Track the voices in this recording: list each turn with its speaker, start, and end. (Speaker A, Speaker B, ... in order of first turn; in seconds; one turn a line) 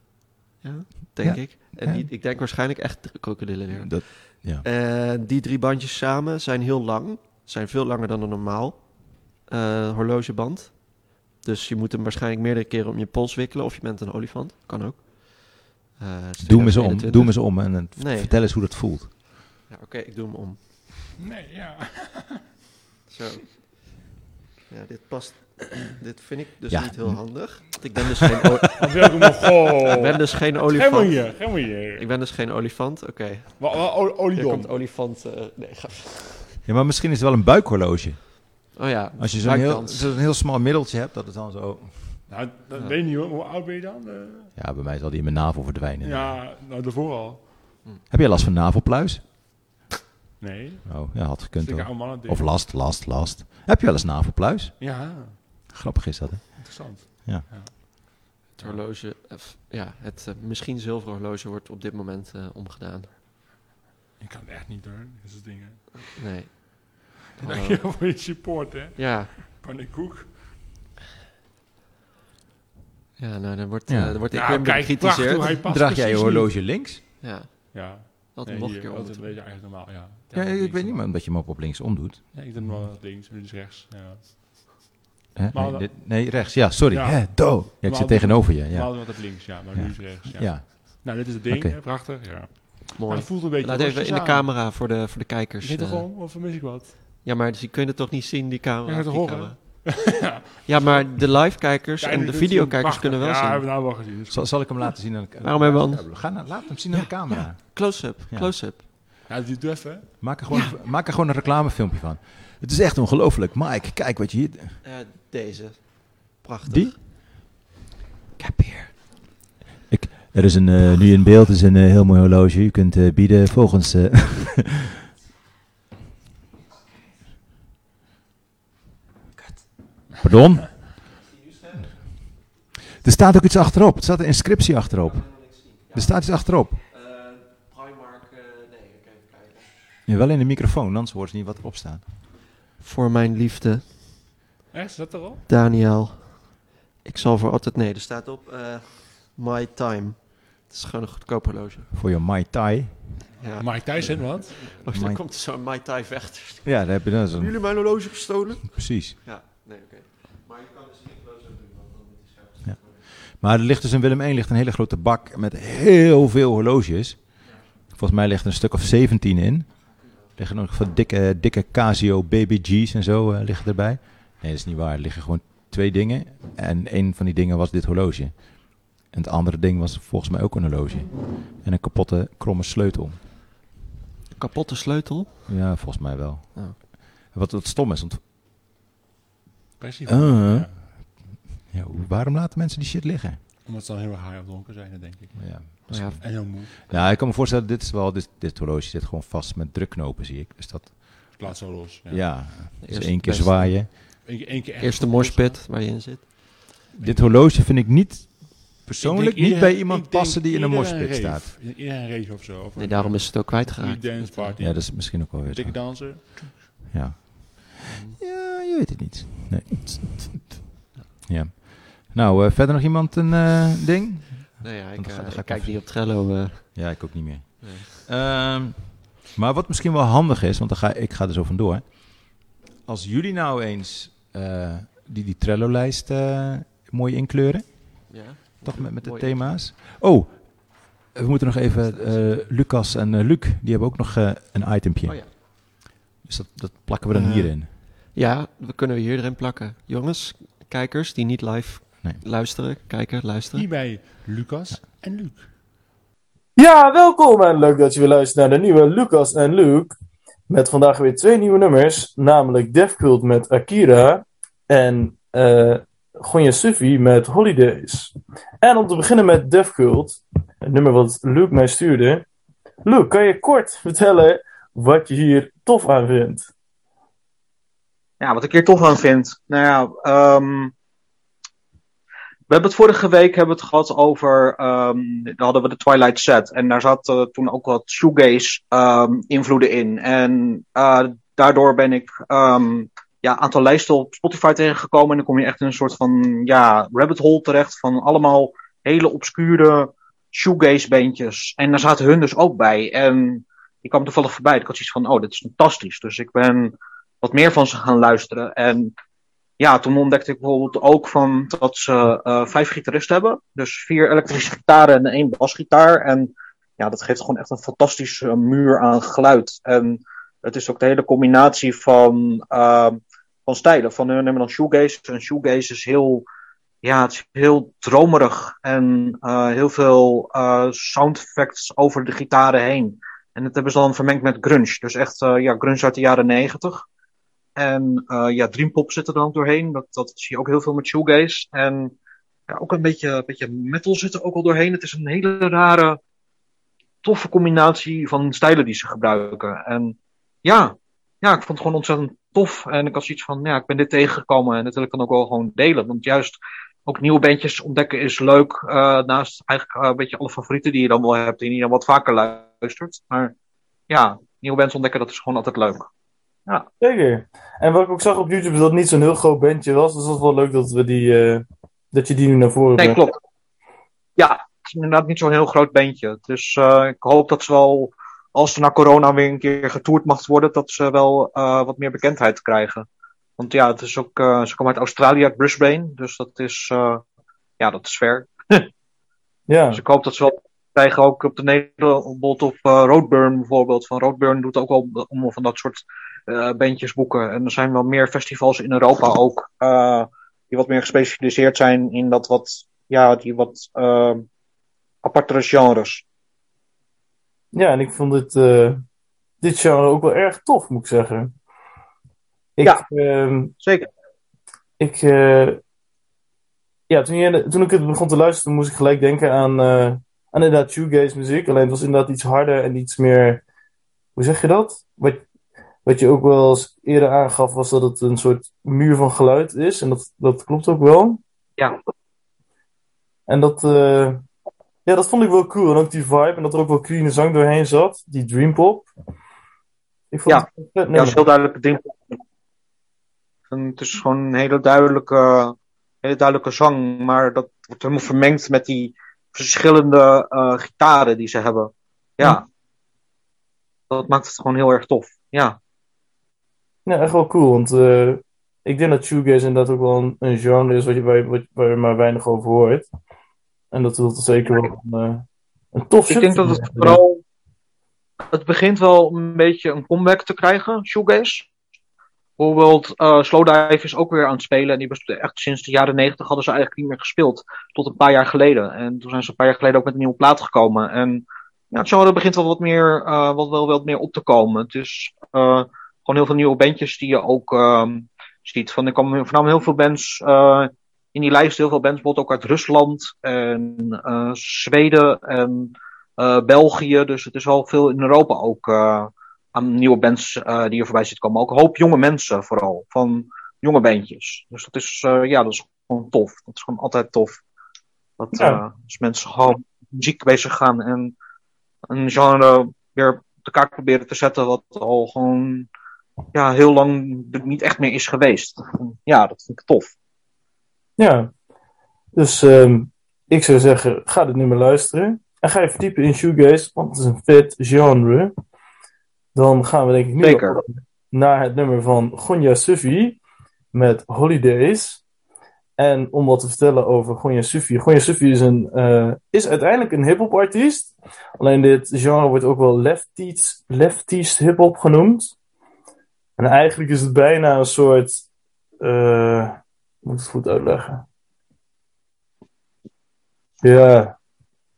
Speaker A: 0.6-18.3
Speaker B: 1.2-2.1
Speaker B: 3.7-4.7
Speaker B: 16.4-19.1
Speaker A: 19.7-20.9
Speaker C: 21.2-22.6
Speaker A: 23.1-23.8
Speaker A: 24.7-29.2
Speaker B: 26.7-27.9
Speaker C: 28.8-32.1
Speaker A: 29.9-36.5
Speaker C: 33.6-34.8
Speaker B: 36.6-42.3
Speaker A: 38.7-40.2
Speaker C: 42.3-44.5
Speaker B: 44.6-46.4
Speaker C: 46.0-47.8
Speaker B: 48.1-49.3
Speaker C: 50.4-52.6
Speaker B: 50.9-57.5
Speaker C: 54.8-55.4
Speaker C: 56.6-58.8
Speaker A: 58.6-63.1
Speaker C: 64.2-66.2
Speaker A: 66.2-68.2
Speaker C: 67.4-70.5
Speaker A: 69.0-69.3
Speaker A: 73.2-75.6
Speaker B: 73.9-74.2
Speaker C: 74.3-76.6
Speaker B: 75.7-77.0
Speaker A: 77.2-79.3
Speaker C: 77.7-81.1
Speaker B: 80.3-82.9
Speaker C: 82.3-84.9
Speaker B: 85.3-91.8
Speaker C: 85.5-94.5
Speaker A: 93.0-96.1
Speaker C: 95.6-97.0
Speaker A: 97.2-103.7
Speaker C: 98.9-104.8
Speaker B: 104.3-108.5
Speaker A: 105.4-106.5
Speaker A: 107.3-108.8
Speaker C: 109.3-110.2
Speaker B: 110.2-114.8
Speaker A: 114.8-117.0
Speaker B: 116.7-117.0
Speaker A: 118.4-119.0
Speaker B: 119.9-125.0
Speaker A: 129.4-129.6
Speaker B: 130.2-131.0
Speaker B: 133.0-136.8
Speaker A: 137.1-138.6
Speaker B: 140.1-142.0
Speaker A: 142.8-144.1
Speaker C: 144.7-145.4
Speaker A: 145.5-151.9
Speaker B: 151.9-153.3
Speaker A: 153.4-161.7
Speaker C: 153.5-154.8
Speaker B: 154.9-155.2
Speaker B: 156.7-157.7
Speaker B: 158.7-159.2
Speaker B: 163.2-183.2
Speaker A: 184.3-185.5
Speaker B: 185.5-188.2
Speaker C: 189.8-190.8
Speaker B: 190.1-193.4
Speaker C: 193.6-196.9
Speaker B: 195.4-203.9
Speaker A: 195.9-197.0
Speaker C: 201.4-202.4
Speaker A: 202.8-204.3
Speaker C: 204.2-205.7
Speaker A: 204.8-206.4
Speaker C: 207.0-207.3
Speaker B: 207.0-211.5
Speaker C: 209.0-216.8
Speaker A: 212.8-214.6
Speaker B: 214.6-216.2
Speaker B: 216.9-220.6
Speaker A: 217.9-218.2
Speaker B: 221.3-225.8
Speaker A: 224.6-226.9
Speaker B: 226.7-247.7
Speaker A: 227.6-227.9
Speaker A: 238.1-239.6
Speaker A: 241.8-242.4
Speaker A: 245.0-245.3
Speaker A: 247.1-253.7
Speaker C: 253.5-255.5
Speaker D: 256.6-259.9
Speaker D: 260.5-272.2
Speaker D: 272.9-276.5
Speaker E: 278.2-280.7
Speaker E: 282.5-308.9
Speaker E: 309.6-326.3
Speaker E: 326.8-336.9
Speaker E: 337.6-341.9
Speaker E: 342.5-346.0
Speaker E: 347.0-363.3
Speaker E: 363.9-365.9
Speaker D: 366.8-373.0
Speaker E: 372.8-373.2
Speaker E: 374.2-382.9
Speaker E: 383.4-387.0
Speaker E: 387.6-388.7
Speaker D: 389.5-389.8
Speaker E: 389.7-404.2
Speaker E: 405.0-406.0
Speaker D: 407.5-408.8
Speaker D: 409.4-411.3
Speaker D: 412.6-413.5
Speaker E: 413.6-413.9
Speaker D: 414.8-415.6
Speaker D: 416.9-423.4
Speaker D: 424.2-425.2
Speaker D: 425.9-431.2
Speaker D: 433.3-434.2
Speaker D: 434.9-438.9
Speaker D: 440.1-441.2
Speaker E: 440.3-442.2
Speaker E: 443.5-452.4
Speaker E: 453.9-455.6
Speaker D: 456.9-462.9
Speaker D: 463.7-467.0
Speaker E: 466.1-467.2
Speaker E: 468.3-471.5
Speaker E: 472.4-507.4
Speaker E: 508.2-511.1
Speaker D: 508.4-508.6
Speaker E: 511.9-515.7
Speaker E: 516.3-519.9
Speaker D: 521.0-521.3
Speaker D: 522.1-528.3
Speaker D: 529.4-533.2
Speaker E: 530.2-530.6
Speaker D: 533.7-535.0
Speaker D: 535.8-545.3
Speaker D: 546.4-548.2
Speaker D: 548.8-551.0
Speaker D: 553.6-554.1